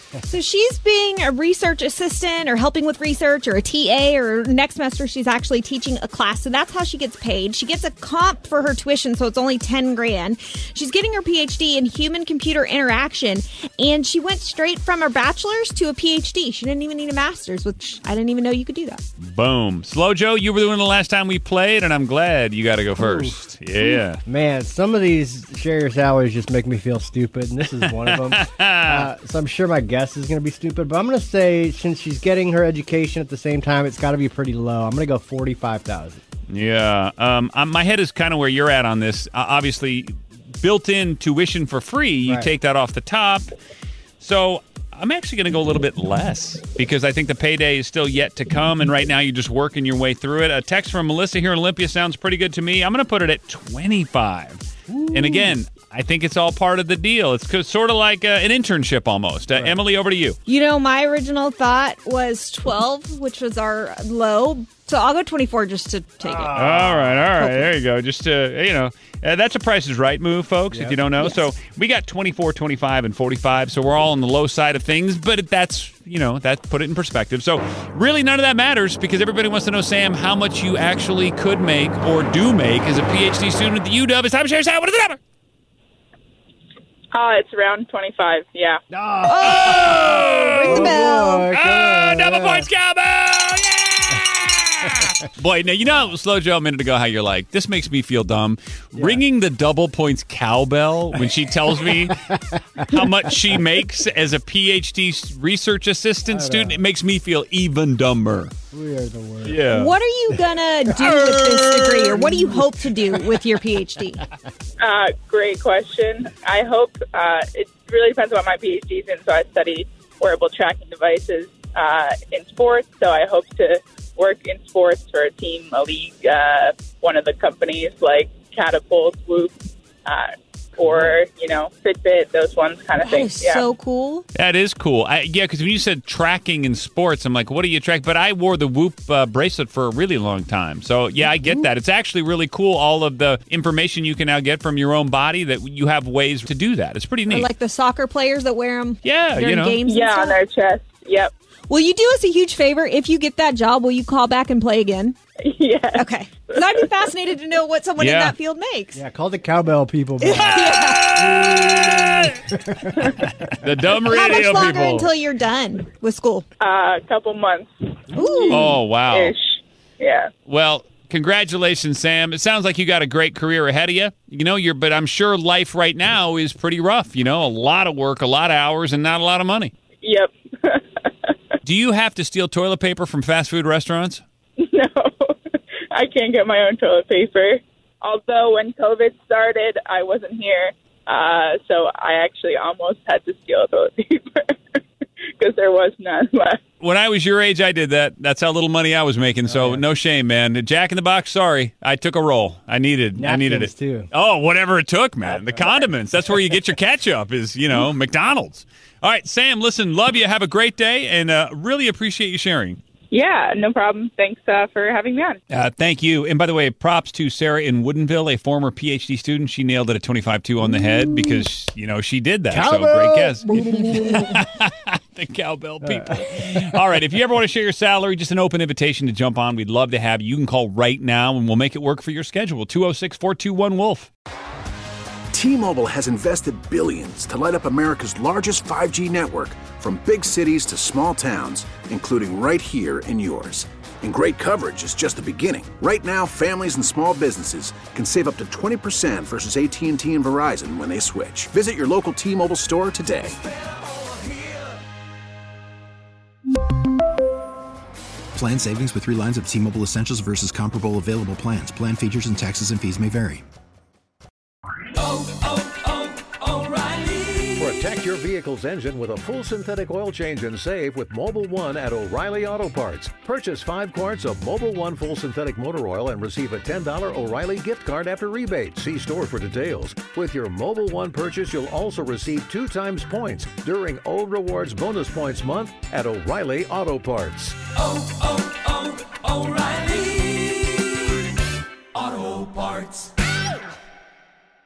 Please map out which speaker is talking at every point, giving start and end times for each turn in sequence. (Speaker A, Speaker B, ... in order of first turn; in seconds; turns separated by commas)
Speaker A: 0.3-19.0, Speaker B: 19.2-24.2, Speaker C: 23.0-23.3, Speaker C: 24.2-36.2, Speaker B: 27.9-29.1, Speaker B: 36.5-43.5, Speaker C: 42.2-42.5, Speaker B: 44.2-60.4, Speaker C: 54.9-55.5, Speaker A: 60.5-66.5, Speaker C: 66.2-67.3, Speaker B: 66.5-85.2, Speaker C: 70.7-71.0, Speaker D: 87.1-88.8, Speaker C: 88.9-92.7, Speaker A: 89.2-89.7, Speaker B: 89.4-102.2, Speaker A: 90.7-91.4, Speaker C: 98.9-99.2, Speaker C: 102.0-102.3, Speaker B: 102.8-108.5, Speaker C: 106.3-106.8, Speaker C: 108.7-109.8, Speaker B: 109.4-110.4, Speaker A: 109.8-114.2, Speaker C: 110.8-111.2, Speaker B: 111.0-112.4, Speaker C: 112.4-112.8, Speaker D: 114.8-129.5, Speaker D: 130.0-133.7, Speaker A: 133.0-134.2, Speaker B: 134.3-147.5, Speaker A: 147.3-150.4, Speaker B: 149.0-149.8, Speaker D: 149.8-151.3, Speaker A: 151.7-155.2, Speaker D: 155.4-157.0, Speaker A: 155.9-159.0, Speaker B: 158.0-158.3, Speaker C: 158.9-162.6, Speaker A: 160.2-161.1, Speaker B: 161.2-162.3, Speaker B: 163.5-165.1, Speaker A: 164.1-166.4, Speaker D: 166.6-170.3, Speaker A: 168.2-168.5, Speaker B: 168.5-169.3, Speaker B: 170.4-179.7, Speaker D: 180.0-181.1, Speaker B: 181.6-184.2, Speaker D: 184.6-185.3, Speaker D: 185.9-194.8, Speaker D: 195.4-196.6, Speaker B: 196.8-212.8, Speaker C: 199.4-199.8, Speaker C: 203.2-204.1, Speaker D: 213.1-215.4, Speaker B: 215.5-234.1, Speaker C: 222.5-224.3, Speaker C: 225.8-226.1, Speaker E: 235.3-253.4, Speaker F: 258.7-262.2, Speaker F: 262.8-263.4, Speaker E: 266.6-267.3, Speaker G: 267.5-287.6, Speaker E: 287.8-290.6, Speaker E: 292.0-293.0